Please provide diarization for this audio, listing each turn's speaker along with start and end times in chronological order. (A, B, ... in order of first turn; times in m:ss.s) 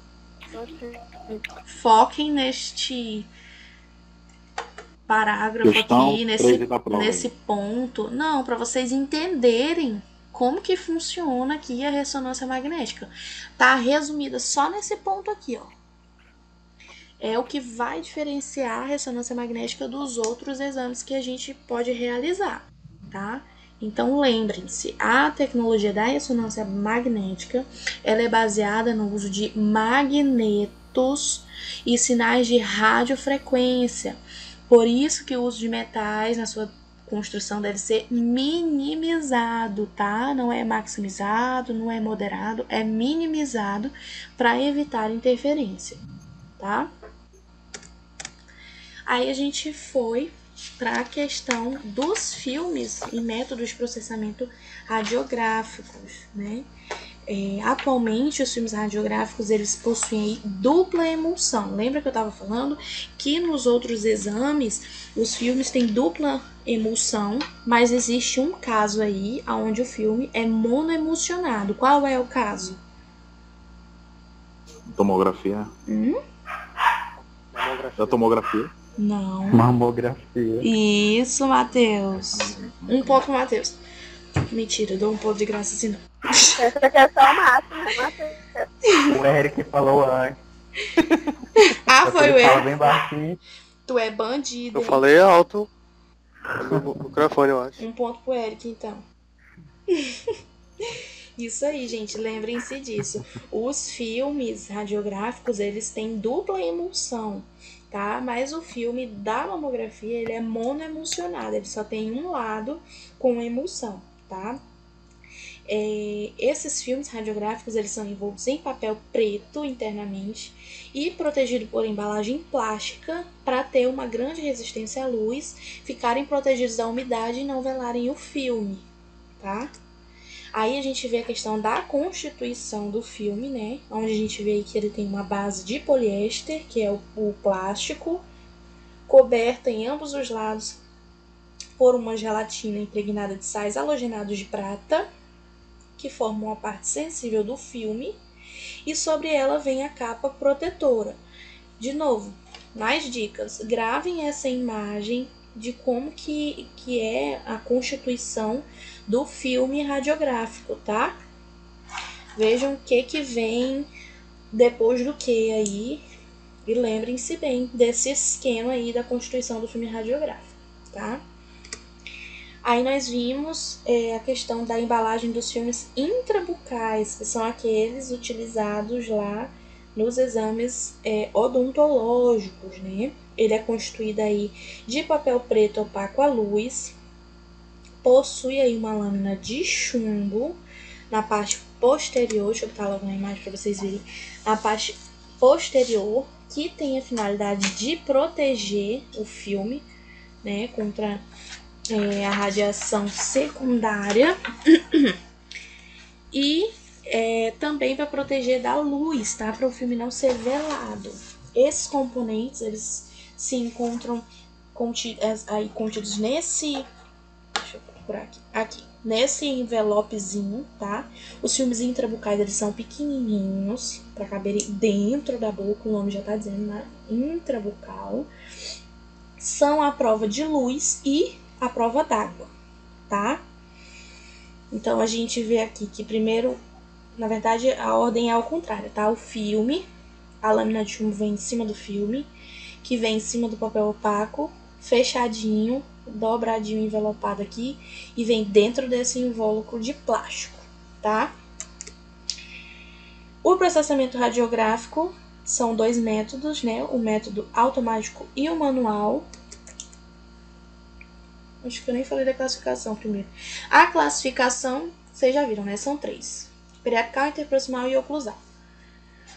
0:00.5-0:01.4 A
0:01.7-0:03.3 B
0:05.1-0:15.7 B
0:05.6-0:07.3 C
0:17.2-0:34.2 B
0:34.7-0:46.0 B
0:46.6-0:46.9 B
0:49.1-0:56.6 B
0:57.3-1:12.8 B
1:14.9-1:15.7 C
1:15.9-1:16.2 B
1:17.5-1:18.2 D
1:18.0-1:18.7 C
1:19.0-1:19.6 B
1:19.5-1:20.7 E
1:20.6-1:23.8 B
1:22.3-1:23.2 C
1:24.5-1:26.6 B
1:26.6-1:28.7 A
1:29.1-1:30.4 E
1:31.6-1:32.7 B
1:32.0-1:33.4 E
1:33.9-1:35.0 B
1:34.7-1:35.7 D
1:36.6-1:37.8 D
1:37.8-1:39.0 B
1:39.9-1:40.3 B
1:40.9-1:54.6 B
1:55.7-2:08.8 B
2:09.4-2:09.7 B
2:10.5-2:18.2 B
2:19.1-2:20.8 B
2:21.8-2:25.1 B
2:26.0-2:28.2 B
2:28.8-2:31.2 B
2:31.8-2:41.2 B
2:42.4-2:43.9 B
2:44.5-2:46.0 B
2:46.6-2:51.2 B
2:52.6-3:06.9 B
3:08.0-3:10.6 B
3:11.1-3:19.8 B
3:20.4-3:21.2 B
3:21.9-3:25.2 B
3:26.3-3:36.8 B
3:37.5-3:48.3 B
3:49.4-3:52.5 B
3:53.1-3:53.4 B
3:54.7-3:56.6 B
3:57.2-3:59.8 B
4:00.4-4:02.3 B
4:02.8-4:11.3 B
4:13.4-4:19.3 B
4:21.6-4:28.4 B